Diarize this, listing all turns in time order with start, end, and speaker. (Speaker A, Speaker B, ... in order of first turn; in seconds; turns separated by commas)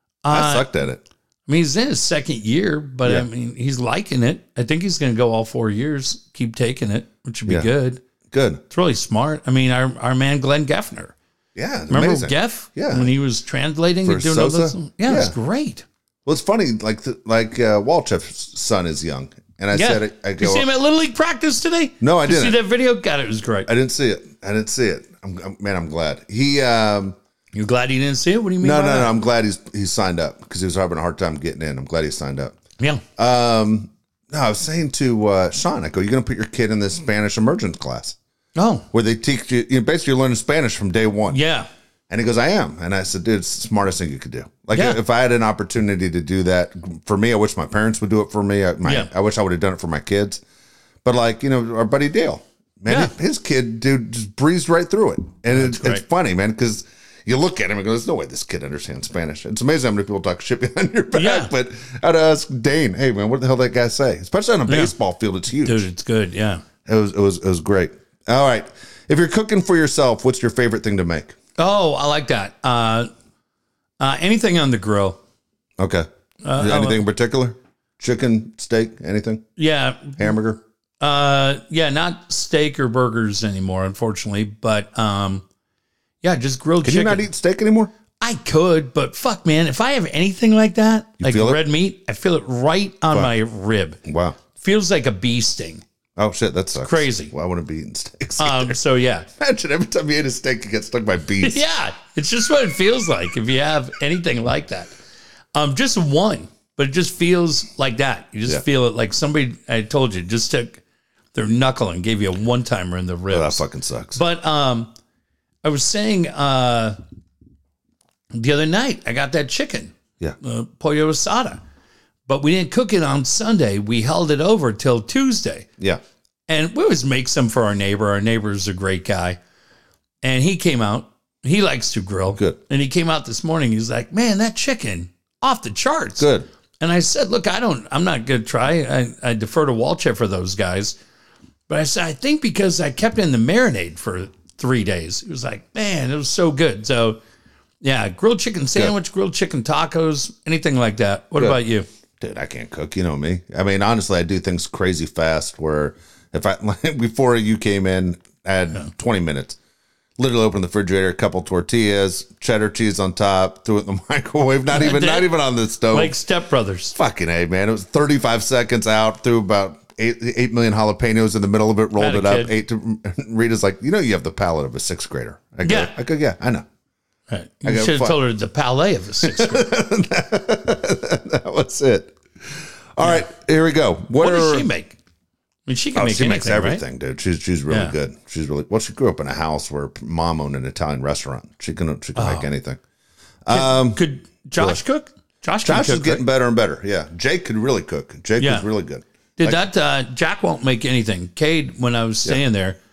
Speaker A: 0.2-0.7, Speaker B: 0.3-1.0, Speaker A: 1.5-8.0, Speaker B: 8.3-8.6, Speaker A: 8.7-11.1, Speaker B: 11.6-13.1, Speaker A: 11.9-15.8, Speaker B: 14.0-15.3, Speaker B: 16.2-20.7, Speaker A: 19.7-23.7, Speaker B: 22.0-22.6, Speaker B: 23.6-27.1, Speaker A: 27.5-29.1, Speaker B: 28.6-32.5, Speaker B: 33.2-38.1, Speaker A: 38.5-38.9, Speaker B: 38.9-41.4, Speaker A: 41.3-41.7, Speaker B: 42.1-50.4, Speaker A: 44.7-45.0, Speaker A: 48.8-49.1, Speaker B: 51.0-65.8, Speaker A: 55.5-56.0, Speaker A: 61.1-61.5, Speaker A: 64.7-64.9, Speaker A: 65.6-66.6, Speaker B: 66.8-71.3, Speaker A: 71.6-73.1, Speaker A: 74.0-75.2, Speaker B: 75.8-79.4, Speaker A: 76.4-77.0, Speaker A: 79.6-80.3, Speaker B: 80.2-80.6, Speaker A: 81.0-85.4, Speaker A: 86.2-87.3, Speaker B: 86.8-87.9, Speaker A: 88.2-94.0, Speaker B: 91.2-91.6, Speaker B: 94.0-94.4, Speaker A: 94.5-95.8, Speaker B: 96.2-98.8, Speaker A: 96.8-97.3, Speaker A: 98.4-99.3, Speaker B: 99.4-101.6, Speaker A: 101.4-104.9, Speaker A: 105.5-110.8, Speaker A: 111.3-113.6, Speaker B: 113.3-114.2, Speaker A: 114.1-114.9, Speaker A: 115.6-117.0, Speaker A: 118.3-121.6, Speaker A: 122.3-125.7, Speaker A: 126.5-129.4, Speaker A: 130.2-136.3, Speaker B: 136.2-136.5, Speaker A: 136.8-140.9, Speaker A: 141.7-147.2, Speaker A: 147.8-151.8, Speaker B: 152.2-159.6, Speaker B: 160.2-166.1, Speaker A: 164.7-165.3, Speaker A: 165.9-166.9, Speaker B: 166.9-176.6, Speaker A: 172.0-172.5, Speaker A: 175.6-175.9, Speaker A: 177.3-179.7, Speaker B: 177.6-178.2, Speaker B: 179.2-184.7, Speaker A: 184.2-185.0, Speaker A: 185.7-186.8, Speaker B: 185.9-192.8, Speaker A: 187.7-187.9, Speaker A: 192.2-192.5, Speaker B: 193.4-194.0, Speaker A: 193.5-196.2, Speaker B: 195.6-199.6, Speaker A: 198.4-198.7, Speaker A: 199.4-202.8